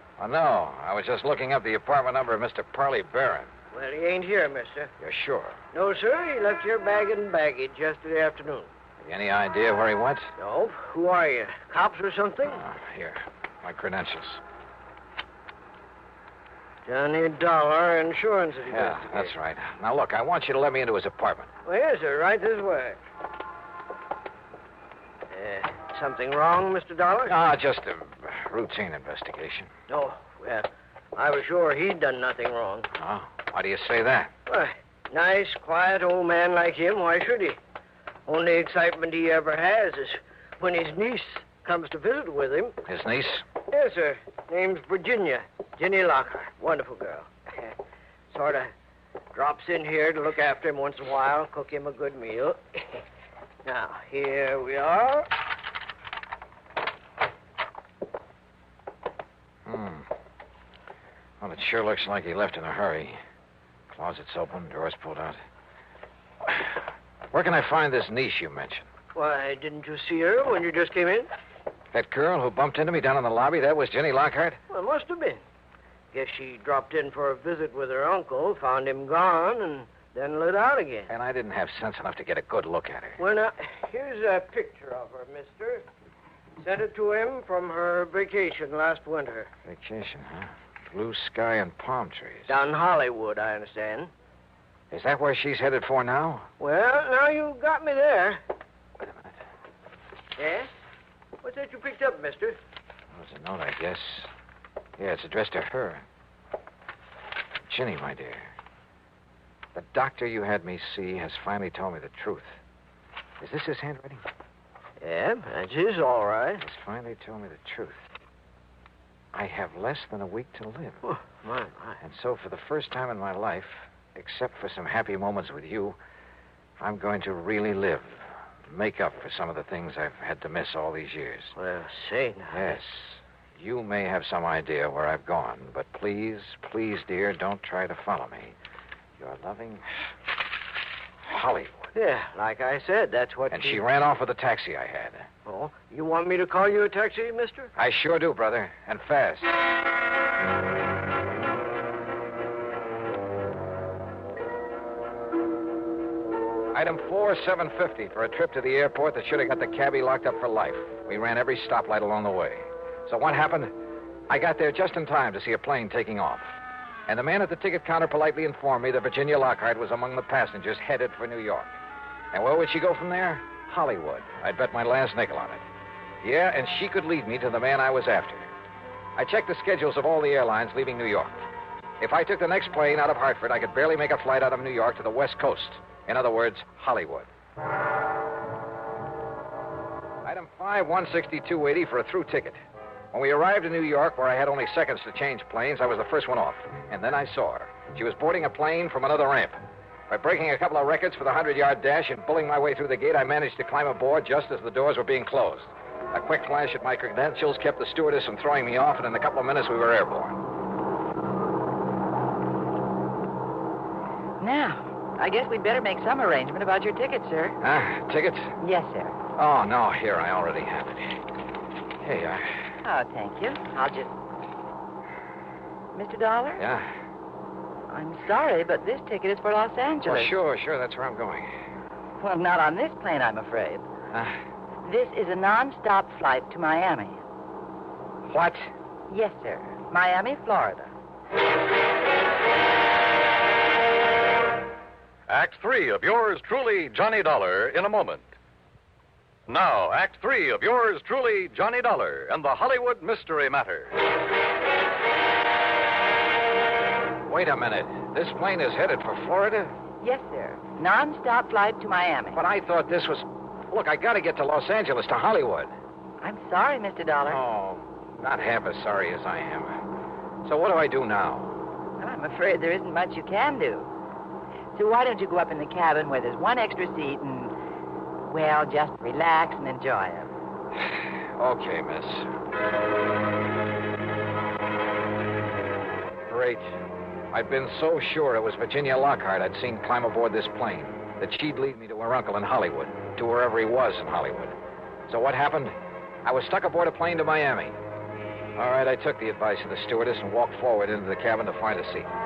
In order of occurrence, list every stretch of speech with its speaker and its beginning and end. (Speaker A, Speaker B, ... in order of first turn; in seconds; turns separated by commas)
Speaker A: 0.2-3.5, Speaker B: 3.7-4.9, Speaker A: 5.0-5.6, Speaker B: 5.7-8.7, Speaker A: 9.0-10.3, Speaker B: 10.4-12.7, Speaker A: 12.5-14.4, Speaker B: 16.9-19.3, Speaker A: 18.7-21.5, Speaker B: 21.7-23.0, Speaker B: 25.3-27.4, Speaker A: 27.3-29.7, Speaker B: 29.9-32.9, Speaker A: 33.0-34.3, Speaker B: 34.5-37.6, Speaker B: 38.3-42.8, Speaker A: 42.9-43.5, Speaker B: 43.7-47.8, Speaker B: 48.3-48.7, Speaker B: 49.3-53.0, Speaker B: 53.6-55.3, Speaker A: 59.7-60.1, Speaker A: 61.4-63.2, Speaker A: 63.9-65.4, Speaker A: 67.3-68.9, Speaker B: 69.1-71.3, Speaker A: 71.9-74.6, Speaker B: 74.7-75.4, Speaker B: 76.1-81.1, Speaker A: 81.1-83.2, Speaker B: 83.2-85.8, Speaker B: 86.6-89.5, Speaker A: 89.7-92.5, Speaker B: 92.5-94.1, Speaker A: 94.9-96.5, Speaker B: 96.6-98.4, Speaker A: 99.0-99.3, Speaker B: 100.4-100.7, Speaker B: 101.4-102.6, Speaker A: 103.1-104.3, Speaker A: 105.0-106.0, Speaker A: 107.7-108.5, Speaker A: 109.8-112.6, Speaker A: 113.4-114.2, Speaker B: 115.0-116.6, Speaker A: 116.6-118.0, Speaker A: 119.3-121.0, Speaker B: 121.0-122.0, Speaker A: 122.0-126.0, Speaker A: 126.8-131.5, Speaker B: 131.6-132.8, Speaker A: 132.5-138.6, Speaker A: 139.2-139.8, Speaker A: 141.2-141.8, Speaker B: 141.9-143.8, Speaker A: 143.5-145.3, Speaker B: 145.5-147.7, Speaker A: 147.8-149.5, Speaker A: 156.7-163.7, Speaker A: 164.3-166.5, Speaker A: 167.1-171.8, Speaker A: 172.3-175.6, Speaker A: 176.2-178.5, Speaker A: 179.2-181.4, Speaker A: 182.0-187.3, Speaker A: 190.2-192.6, Speaker A: 193.1-210.4, Speaker C: 214.4-217.6, Speaker A: 217.6-218.5, Speaker C: 218.6-219.2, Speaker A: 219.4-221.2, Speaker A: 222.0-222.7, Speaker C: 222.8-224.1, Speaker C: 225.9-226.6, Speaker A: 226.6-226.9, Speaker C: 227.9-230.3, Speaker A: 230.0-231.5, Speaker C: 232.2-233.8, Speaker A: 234.1-234.4, Speaker C: 234.8-237.2, Speaker A: 238.3-238.7, Speaker C: 239.1-240.9, Speaker D: 245.3-248.3, Speaker D: 249.5-253.9, Speaker A: 257.3-259.7, Speaker C: 260.0-262.4, Speaker A: 262.3-265.7, Speaker C: 266.2-267.4, Speaker A: 267.2-269.7, Speaker A: 270.4-271.6, Speaker C: 272.0-273.9, Speaker C: 274.8-277.5, Speaker C: 278.3-280.3, Speaker A: 281.4-282.3, Speaker A: 286.3-286.7, Speaker A: 287.3-294.6, Speaker A: 295.1-297.8, Speaker A: 298.6-302.1